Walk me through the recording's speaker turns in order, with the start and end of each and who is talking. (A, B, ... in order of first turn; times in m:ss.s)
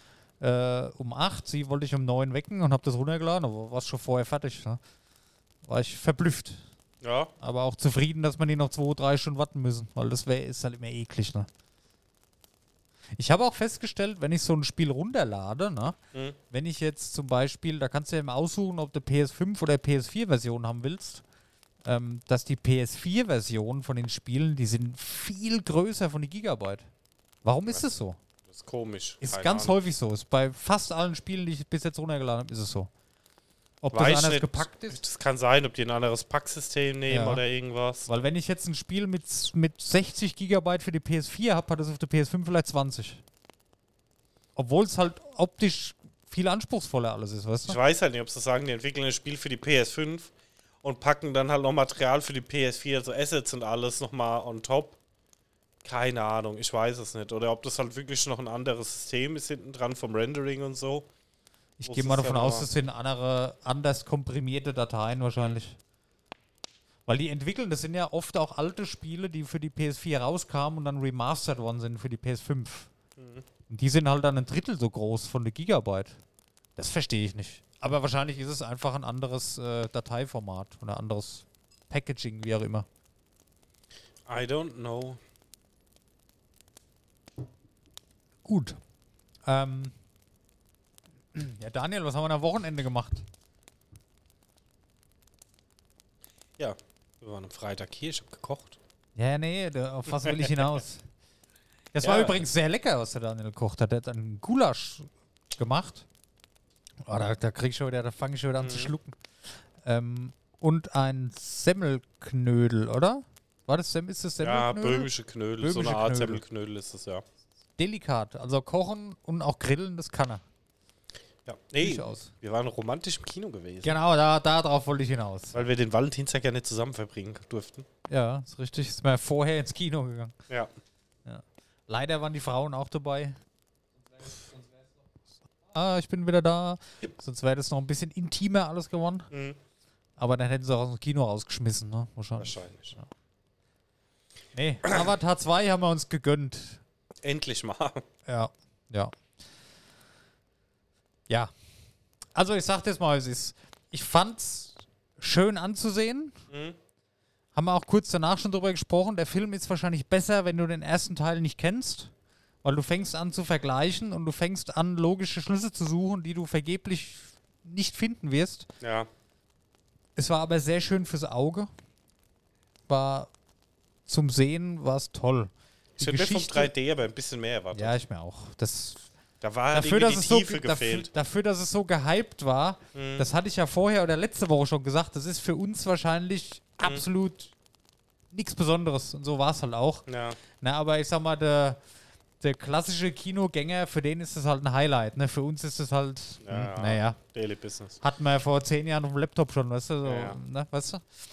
0:00.4-0:04.8 A
0:05.6-0:06.6 A
0:07.0-0:07.3 B
0:07.4-0:11.5 A
0:13.2-0:16.0 A
0:16.5-0:21.2 A
0:21.8-0:26.9 A
0:27.4-0:28.2 A
0:28.5-0:29.8 B
0:29.2-0:32.9 A
0:33.8-0:35.0 A
0:33.9-0:38.1 B
0:37.1-0:37.4 A
0:38.1-0:43.2 A
0:44.6-0:47.8 A
0:47.7-0:55.0 B
0:55.8-1:01.1 B
1:01.8-1:05.8 A
1:01.8-1:02.6 B
1:07.0-1:12.9 A
1:13.2-1:13.4 B
1:13.7-1:16.2 A
1:16.8-1:22.8 A
1:24.3-1:25.2 B
1:28.4-1:28.8 A
1:29.4-1:29.9 A
1:31.3-1:33.2 A
1:36.6-1:38.8 B
1:39.2-1:41.1 A
1:41.9-1:46.0 A
1:42.0-1:42.4 B
1:47.0-1:49.2 A
1:48.6-1:48.9 B
1:49.8-1:55.1 A
1:54.4-1:57.2 B
1:55.6-1:56.4 A
1:57.8-2:00.4 A
2:01.4-2:03.9 B
2:01.8-2:02.3 A
2:03.8-2:05.6 A
2:05.5-2:07.9 B
2:08.1-2:10.4 A
2:11.2-2:13.3 A
2:15.7-2:19.3 A
2:19.3-2:19.6 B
2:20.2-2:23.1 A
2:22.4-2:23.0 B
2:24.5-2:26.8 A
2:27.2-2:28.0 B
2:28.3-2:29.1 A
2:32.3-2:36.4 A
2:36.5-2:36.8 B
2:37.5-2:42.1 A
2:42.6-2:48.7 A
2:48.8-2:49.1 B
2:50.2-2:51.7 A
2:52.9-2:53.3 A
2:54.1-2:56.7 A
2:56.0-2:58.0 B
2:57.7-2:59.1 A
2:59.4-3:01.1 B
2:59.7-3:07.5 A
3:02.9-3:03.3 B
3:08.3-3:10.0 A
3:10.1-3:10.4 B
3:10.6-3:11.8 A
3:12.4-3:17.2 A
3:16.4-3:18.0 B
3:18.0-3:21.0 A
3:20.0-3:20.4 B